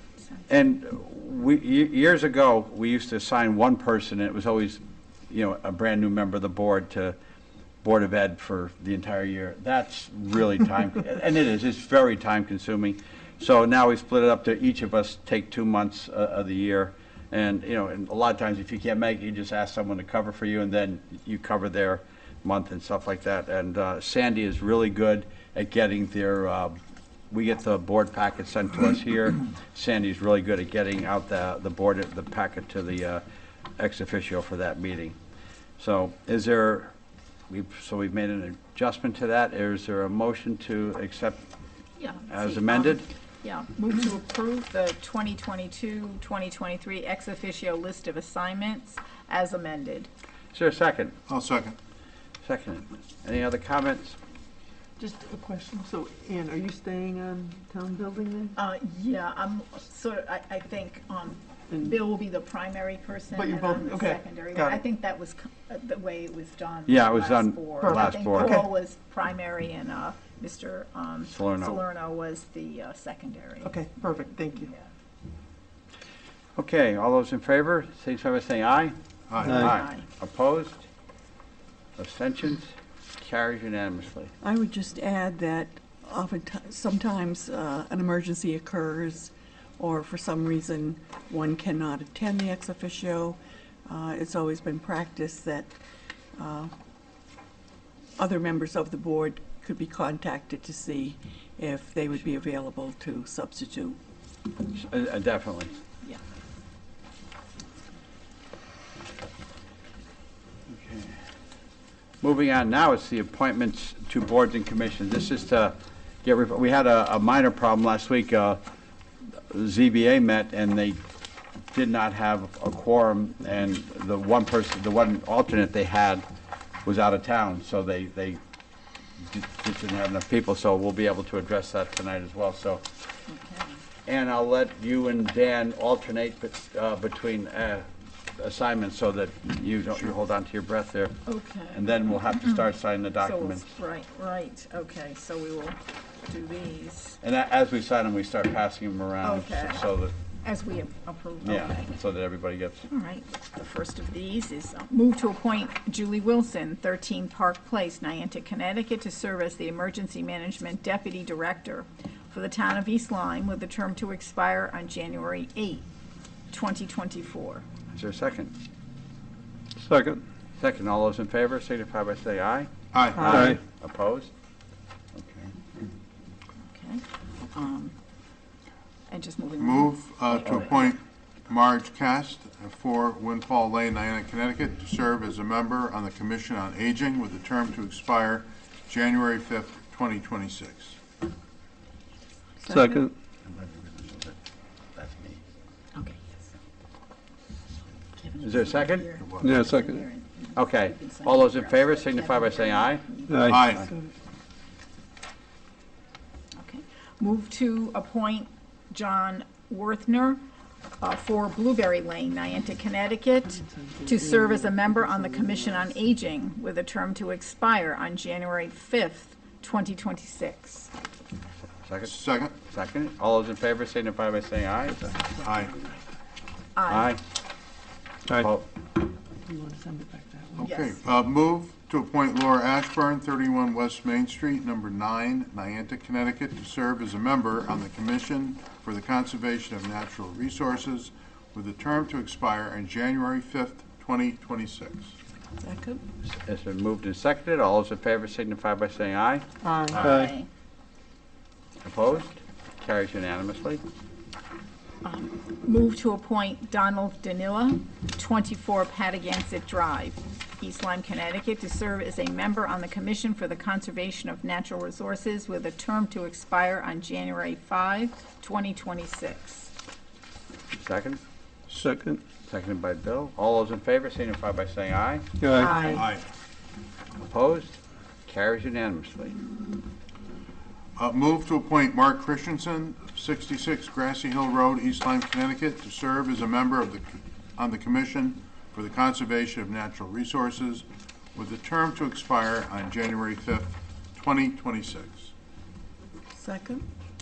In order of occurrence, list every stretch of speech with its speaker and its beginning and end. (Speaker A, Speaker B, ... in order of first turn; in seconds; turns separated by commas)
Speaker A: 0.5-7.2, Speaker A: 7.8-26.8, Speaker A: 27.3-33.2, Speaker A: 33.8-35.2, Speaker A: 35.8-36.9, Speaker A: 37.5-41.4, Speaker B: 42.0-50.1, Speaker A: 42.3-43.1, Speaker A: 50.5-51.1, Speaker C: 51.3-51.8, Speaker A: 52.5-54.2, Speaker D: 55.0-58.5, Speaker B: 58.5-74.8, Speaker D: 63.3-64.8, Speaker A: 66.9-68.6, Speaker D: 67.9-68.6, Speaker A: 71.3-71.8, Speaker D: 73.7-74.7, Speaker A: 76.6-80.8, Speaker C: 79.3-79.6, Speaker B: 79.5-80.0, Speaker A: 82.0-84.3, Speaker E: 84.4-95.8, Speaker E: 96.4-96.7, Speaker E: 98.2-104.0, Speaker A: 104.8-105.7, Speaker A: 110.7-111.2, Speaker A: 112.2-118.6, Speaker A: 119.5-121.0, Speaker A: 121.7-126.2, Speaker A: 126.8-128.4, Speaker A: 129.2-132.8, Speaker B: 133.3-133.7, Speaker A: 134.1-141.2, Speaker B: 141.3-142.6, Speaker A: 141.7-143.7, Speaker B: 143.2-147.2, Speaker A: 147.2-150.1, Speaker B: 149.2-149.8, Speaker B: 150.4-151.9, Speaker A: 151.4-152.9, Speaker B: 152.9-165.9, Speaker B: 166.5-167.7, Speaker A: 167.9-168.5, Speaker F: 169.8-170.2, Speaker A: 170.6-174.3, Speaker C: 172.9-173.3, Speaker F: 173.3-173.6, Speaker A: 175.2-175.5, Speaker B: 176.7-177.9, Speaker B: 179.1-180.9, Speaker C: 179.6-191.0, Speaker E: 192.6-193.1, Speaker F: 192.7-193.1, Speaker A: 193.5-194.3, Speaker A: 195.0-195.4, Speaker B: 195.9-196.2, Speaker B: 198.2-203.7, Speaker A: 198.4-199.1, Speaker F: 199.4-200.0, Speaker A: 200.6-203.0, Speaker F: 203.3-203.7, Speaker C: 203.5-203.9, Speaker A: 203.6-203.9, Speaker B: 206.6-210.4, Speaker B: 211.0-220.9, Speaker D: 213.7-215.9, Speaker A: 221.9-225.2, Speaker C: 222.1-222.5, Speaker C: 225.4-225.8, Speaker B: 226.8-227.1, Speaker A: 226.9-227.2, Speaker A: 228.3-228.7, Speaker D: 229.5-230.6, Speaker C: 230.6-245.1, Speaker B: 230.6-231.0, Speaker E: 245.6-246.0, Speaker A: 246.3-249.5, Speaker D: 249.6-250.0, Speaker B: 249.9-250.5, Speaker F: 250.0-250.3, Speaker A: 251.8-253.8, Speaker B: 255.0-269.7, Speaker A: 270.7-271.2, Speaker F: 271.7-272.2, Speaker A: 272.5-275.9, Speaker F: 275.4-275.7, Speaker B: 275.5-276.1, Speaker C: 275.9-276.2, Speaker A: 277.2-279.4, Speaker C: 281.0-295.3, Speaker E: 296.4-296.9